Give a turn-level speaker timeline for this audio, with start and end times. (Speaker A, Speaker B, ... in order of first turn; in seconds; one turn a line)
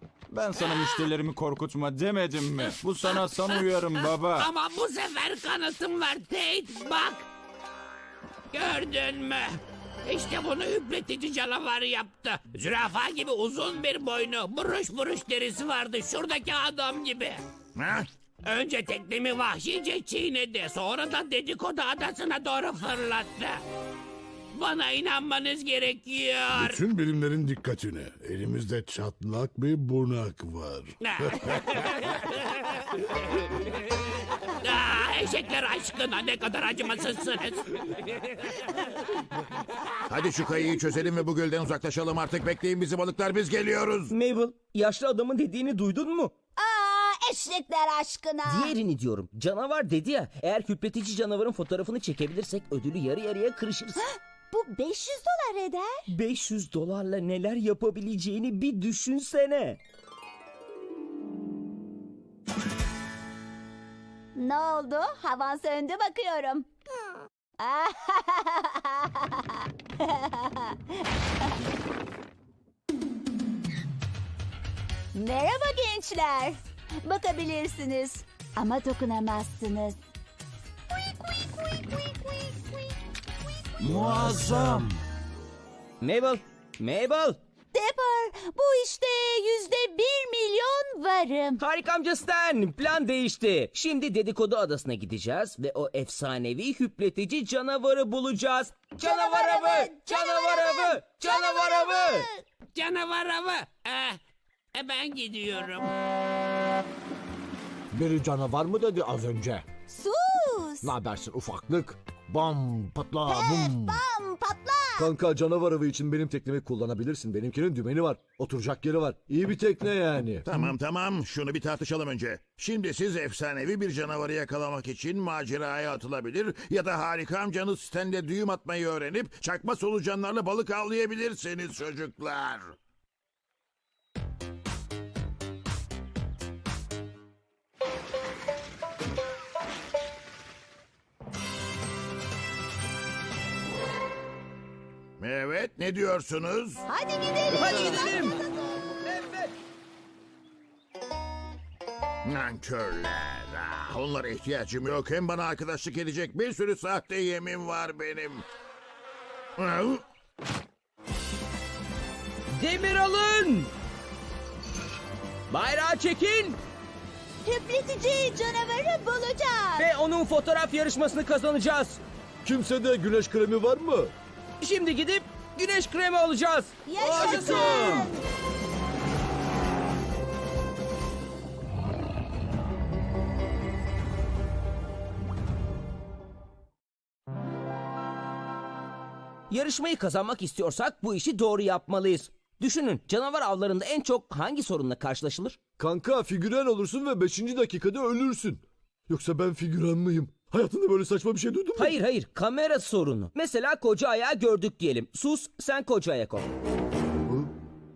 Speaker A: 0.3-4.5
Speaker B: 0.5-1.1
Speaker B: 2.6-7.2
Speaker B: 8.5-17.4
Speaker C: 17.8-18.1
Speaker B: 18.4-23.6
Speaker B: 24.5-26.8
Speaker D: 26.5-31.6
Speaker B: 31.0-32.3
Speaker B: 34.6-38.0
Speaker C: 40.1-44.1
Speaker E: 44.1-46.3
Speaker F: 46.6-48.7
Speaker E: 48.4-54.0
Speaker F: 54.0-56.1
Speaker E: 56.1-59.8
Speaker F: 64.3-66.7
Speaker F: 67.6-71.5
Speaker F: 75.1-80.0
Speaker F: 80.9-82.8
Speaker G: 83.8-84.5
Speaker E: 86.0-87.4
Speaker F: 87.7-91.6
Speaker E: 91.6-102.3
Speaker F: 99.0-102.4
Speaker B: 102.7-104.2
Speaker B: 104.7-105.9
Speaker G: 107.9-109.7
Speaker F: 109.9-110.9
Speaker G: 110.8-114.0
Speaker F: 113.3-115.1
Speaker G: 115.0-120.5
Speaker C: 120.5-132.7
Speaker C: 145.2-146.8
Speaker F: 146.9-148.4
Speaker E: 147.5-148.4
Speaker E: 149.1-149.5
Speaker C: 152.2-158.4
Speaker C: 159.6-160.0
Speaker E: 162.5-163.7
Speaker E: 165.5-166.6
Speaker F: 167.4-169.8
Speaker E: 169.8-172.0
Speaker G: 172.4-174.1
Speaker E: 174.6-178.1
Speaker F: 176.8-178.2
Speaker E: 189.5-195.6
Speaker G: 195.8-201.9
Speaker E: 201.8-206.5